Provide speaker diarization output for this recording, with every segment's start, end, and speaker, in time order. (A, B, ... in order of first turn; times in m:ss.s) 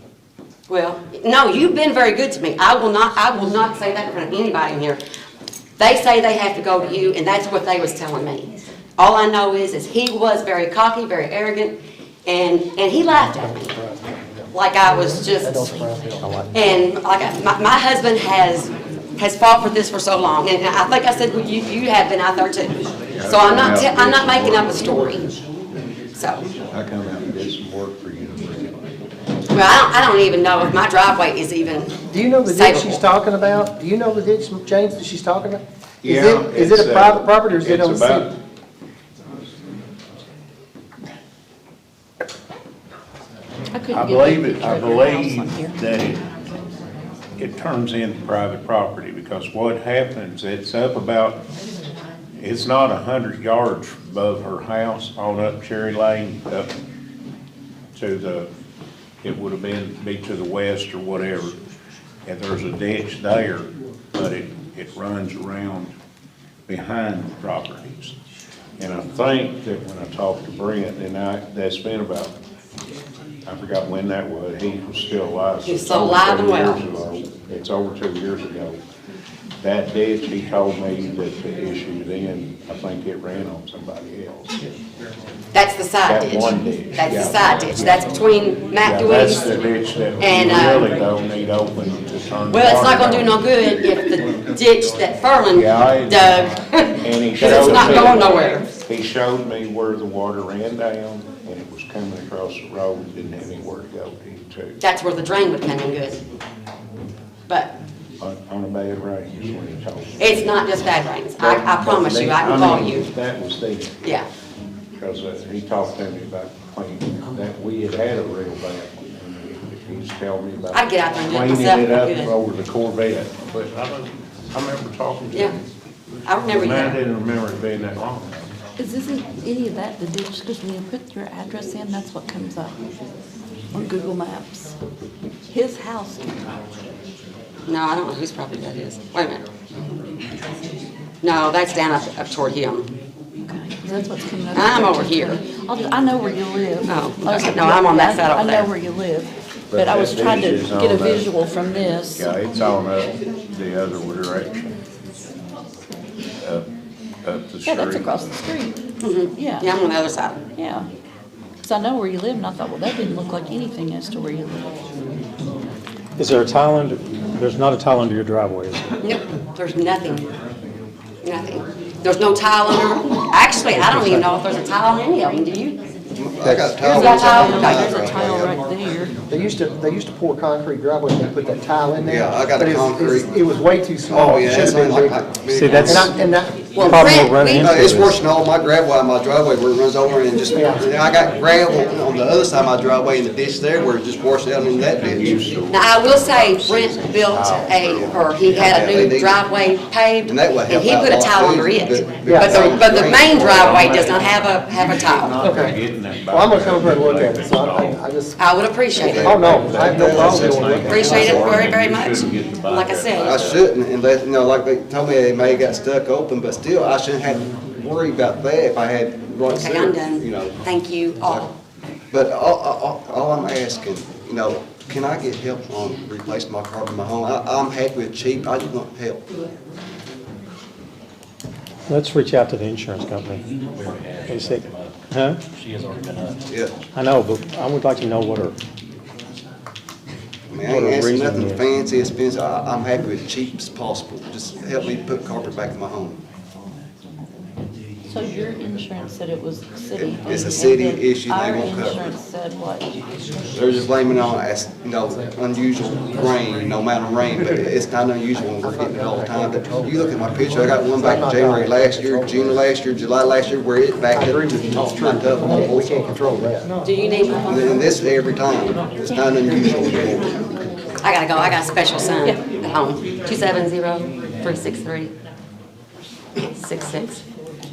0:00.7-0:05.0 A
0:05.8-0:13.8 A
0:13.4-0:14.0 B
0:14.5-0:15.8 A
0:14.8-0:16.8 B
0:16.5-0:25.3 A
0:23.1-0:25.3 C
0:26.2-0:26.4 A
0:26.7-0:28.8 C
0:29.5-0:33.0 A
0:32.1-0:38.3 B
0:36.0-0:38.3 C
0:43.7-0:45.8 D
0:43.9-0:46.2 C
0:47.4-0:51.4 C
0:52.4-0:56.7 C
0:57.9-0:58.5 C
0:59.2-1:01.6 C
1:02.2-1:05.9 C
1:06.7-1:08.2 C
1:08.8-1:12.4 C
1:13.5-1:18.8 C
1:15.7-1:16.8 A
1:19.6-1:24.6 C
1:25.5-1:29.7 A
1:26.0-1:28.0 C
1:28.8-1:33.4 C
1:30.2-1:31.0 A
1:32.5-1:38.7 A
1:35.5-1:44.8 C
1:44.8-1:46.2 A
1:47.5-1:47.7 A
1:48.2-1:50.6 C
1:50.2-1:53.1 A
1:51.4-1:54.1 C
1:55.0-2:05.7 C
2:00.7-2:02.3 A
2:06.3-2:07.0 A
2:06.5-2:08.4 C
2:08.8-2:12.8 D
2:13.7-2:14.7 D
2:15.5-2:16.3 D
2:17.7-2:19.5 A
2:21.2-2:22.9 A
2:23.5-2:32.3 D
2:24.5-2:25.4 A
2:26.9-2:28.7 A
2:29.7-2:31.3 C
2:32.2-2:34.7 C
2:36.4-2:36.7 C
2:37.2-2:38.3 C
2:37.6-2:38.8 D
2:39.0-2:40.4 A
2:39.3-2:39.7 D
2:40.6-2:40.9 D
2:41.6-2:44.8 D
2:46.2-2:48.9 E
2:49.0-2:50.3 A
2:51.2-2:55.8 A
2:53.8-2:54.2 E
2:56.2-2:58.6 F
2:56.8-2:59.2 D
2:56.9-2:58.1 A
2:59.3-3:05.3 B
3:02.0-3:03.3 F
3:04.1-3:06.2 F
3:05.5-3:06.1 E
3:05.9-3:07.2 B
3:06.7-3:07.8 A
3:06.8-3:08.2 E
3:06.8-3:15.5 F
3:10.6-3:10.9 B
3:14.9-3:19.0 C
3:15.7-3:25.4 A
3:18.1-3:19.4 F
3:20.2-3:24.1 F
3:22.2-3:22.8 B
3:23.3-3:28.0 C
3:25.4-3:25.8 B
3:26.3-3:28.4 B
3:28.4-3:29.3 A
3:29.0-3:31.8 F
3:29.0-3:33.7 C
3:29.2-3:31.4 B
3:30.8-3:33.5 A
3:33.2-3:40.6 F
3:39.5-3:41.5 A
3:41.2-3:41.5 F
3:42.1-3:49.2 F
3:51.9-3:53.4 E
3:53.8-3:55.0 G
3:54.3-3:55.4 E
3:55.5-3:56.6 G
3:56.5-3:56.8 F
3:56.9-3:58.6 E
4:00.5-4:06.2 F
4:00.6-4:01.6 E
4:08.1-4:12.9 D
4:10.0-4:12.2 F
4:13.5-4:26.2 F
4:18.6-4:20.2 B
4:21.0-4:22.5 B
4:24.1-4:26.7 B
4:26.8-4:27.8 A
4:27.4-4:30.5 F
4:31.0-4:35.1 A
4:36.4-4:37.2 A